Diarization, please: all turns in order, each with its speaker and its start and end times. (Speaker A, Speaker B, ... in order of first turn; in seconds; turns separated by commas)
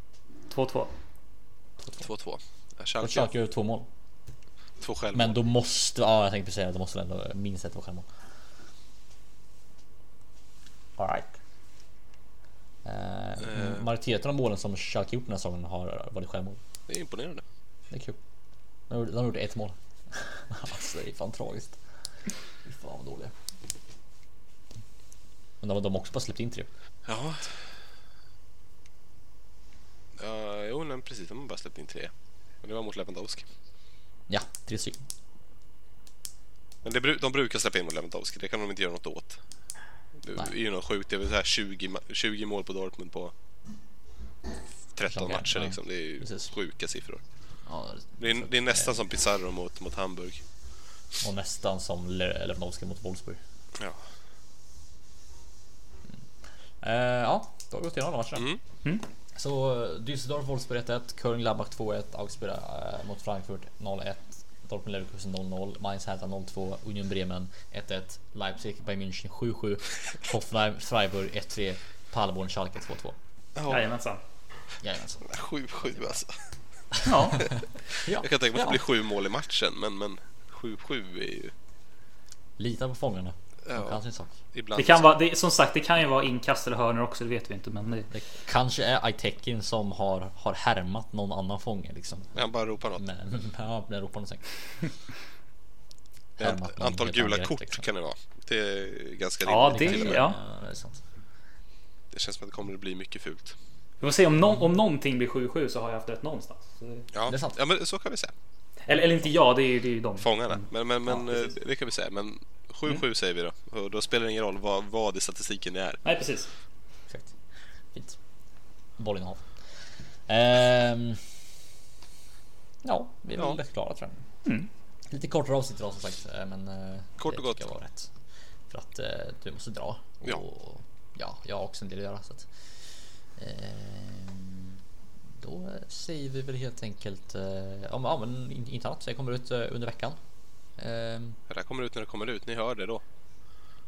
Speaker A: 0.5-0.9, Speaker B: 2.0-3.3, Speaker C: 3.0-3.9, Speaker B: 4.8-5.4, Speaker C: 5.1-8.1, Speaker C: 11.0-11.4, Speaker C: 12.8-16.6, Speaker B: 13.4-13.9, Speaker B: 16.9-17.4, Speaker C: 17.9-18.2, Speaker C: 18.9-23.4, Speaker C: 25.6-26.7, Speaker B: 27.1-27.7, Speaker B: 30.2-33.5, Speaker C: 34.3-35.0, Speaker B: 36.8-39.4, Speaker B: 40.2-43.3, Speaker B: 45.0-47.2, Speaker C: 45.1-46.5, Speaker C: 47.6-49.0, Speaker B: 48.2-50.4, Speaker C: 51.2-53.4, Speaker B: 53.8-54.1, Speaker C: 56.8-58.5, Speaker B: 58.4-58.6, Speaker C: 59.4-73.2, Speaker B: 73.5-73.9, Speaker A: 73.7-74.2, Speaker C: 74.8-76.2, Speaker B: 75.2-76.5, Speaker C: 76.9-77.5, Speaker A: 77.1-77.4, Speaker B: 77.4-81.5, Speaker C: 78.0-78.8, Speaker C: 82.6-84.4, Speaker B: 83.7-85.1, Speaker A: 84.8-88.1, Speaker C: 88.1-92.4, Speaker B: 92.3-93.0, Speaker C: 93.0-94.8, Speaker C: 96.4-97.9, Speaker B: 96.4-100.3, Speaker A: 99.5-100.4, Speaker C: 99.6-101.0, Speaker B: 102.1-103.6, Speaker A: 104.0-107.1, Speaker B: 107.1-108.3, Speaker C: 107.3-107.6, Speaker A: 108.9-110.7, Speaker B: 110.2-116.0, Speaker C: 111.1-111.5, Speaker A: 116.0-116.5, Speaker C: 117.1-118.2, Speaker C: 118.9-121.3, Speaker C: 122.8-124.2, Speaker C: 125.1-128.1, Speaker B: 127.2-127.7, Speaker C: 128.7-132.5, Speaker C: 133.3-134.8, Speaker C: 135.4-141.4, Speaker B: 141.5-143.0